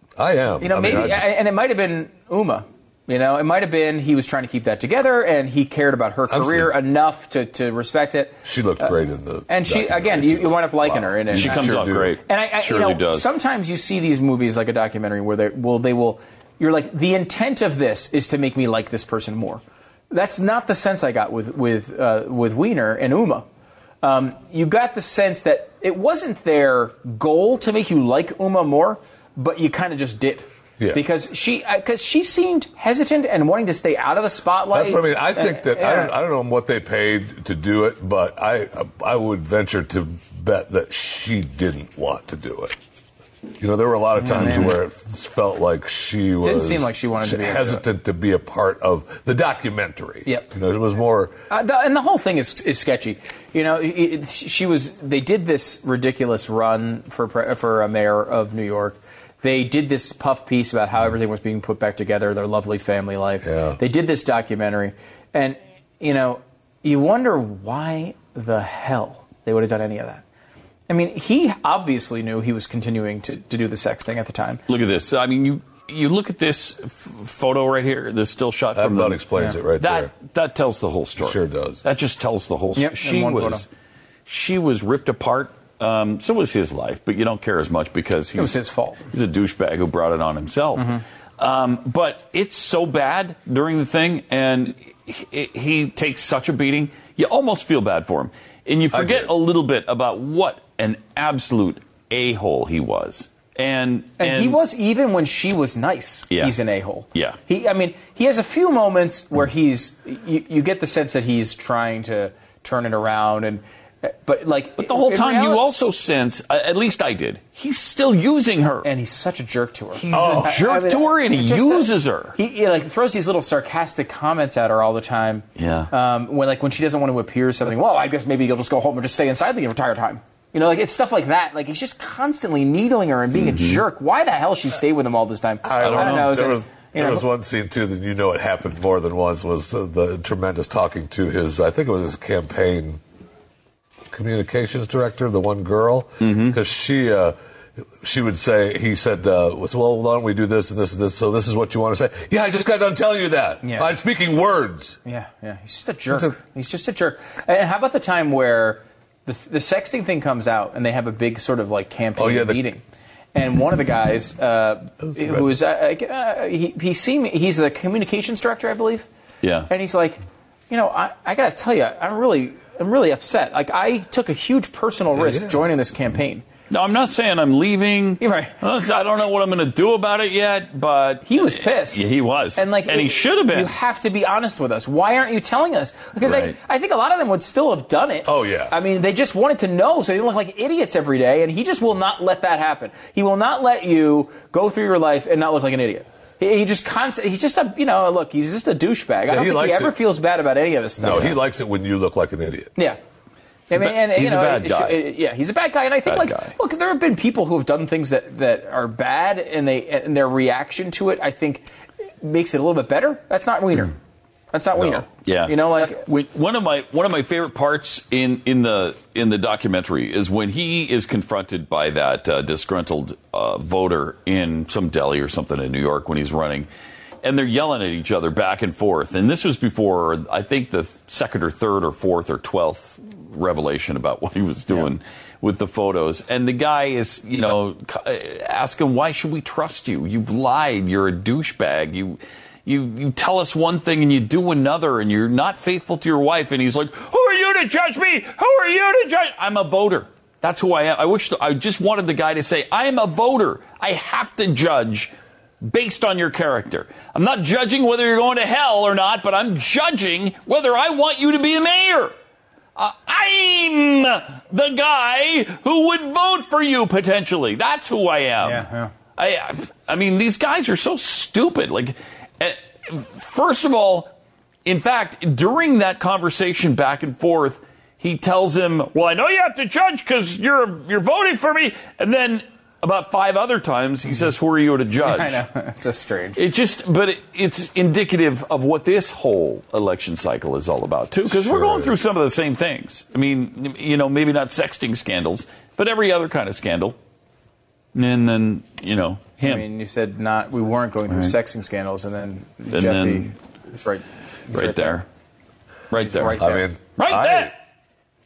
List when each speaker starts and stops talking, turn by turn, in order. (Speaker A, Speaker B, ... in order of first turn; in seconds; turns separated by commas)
Speaker A: 0.2-1.3, Speaker B: 0.6-8.9, Speaker A: 6.3-6.7, Speaker A: 8.4-12.1, Speaker B: 9.5-23.4, Speaker C: 11.3-13.2, Speaker B: 24.0-36.1, Speaker A: 34.7-42.8, Speaker A: 43.6-51.4, Speaker B: 44.2-44.8, Speaker B: 46.4-47.8, Speaker B: 51.5-70.2, Speaker A: 63.4-63.8, Speaker B: 70.9-74.6, Speaker C: 74.7-79.3, Speaker A: 78.8-80.1, Speaker C: 79.8-83.7, Speaker A: 81.2-81.8, Speaker B: 82.8-83.6, Speaker C: 84.3-88.6, Speaker B: 88.4-89.0, Speaker C: 89.1-104.6, Speaker B: 90.8-91.0, Speaker A: 98.9-99.3, Speaker B: 104.2-115.6, Speaker C: 114.8-118.9, Speaker B: 118.8-137.3, Speaker C: 120.0-122.4, Speaker A: 120.1-120.5, Speaker C: 125.6-125.9, Speaker C: 133.3-133.8, Speaker A: 135.6-143.0, Speaker C: 135.8-136.4, Speaker A: 144.1-147.4, Speaker C: 146.2-146.6, Speaker A: 148.0-155.0, Speaker B: 153.6-153.9, Speaker B: 155.1-162.8, Speaker A: 162.2-162.6, Speaker B: 163.3-169.1, Speaker A: 165.1-165.5, Speaker C: 169.4-169.7, Speaker B: 169.7-170.2, Speaker B: 170.7-176.4, Speaker A: 175.2-175.5, Speaker C: 176.7-183.7, Speaker B: 178.2-178.5, Speaker B: 181.2-201.4, Speaker C: 186.2-186.6, Speaker A: 188.2-188.7, Speaker A: 199.3-200.0, Speaker A: 201.0-202.7, Speaker B: 203.7-211.7, Speaker C: 203.7-205.1, Speaker C: 206.1-206.5, Speaker B: 212.2-213.9, Speaker B: 214.5-216.0, Speaker C: 215.1-226.7, Speaker C: 227.2-262.1, Speaker C: 262.8-268.6, Speaker B: 268.4-268.9, Speaker C: 269.2-274.1, Speaker C: 274.6-285.4, Speaker B: 285.0-286.4, Speaker C: 286.4-297.0, Speaker A: 291.3-292.0, Speaker C: 297.9-299.6, Speaker B: 299.4-305.0, Speaker C: 302.7-303.3, Speaker C: 304.5-305.1, Speaker C: 305.9-306.4, Speaker B: 306.0-306.7, Speaker A: 306.4-307.5, Speaker C: 307.0-307.5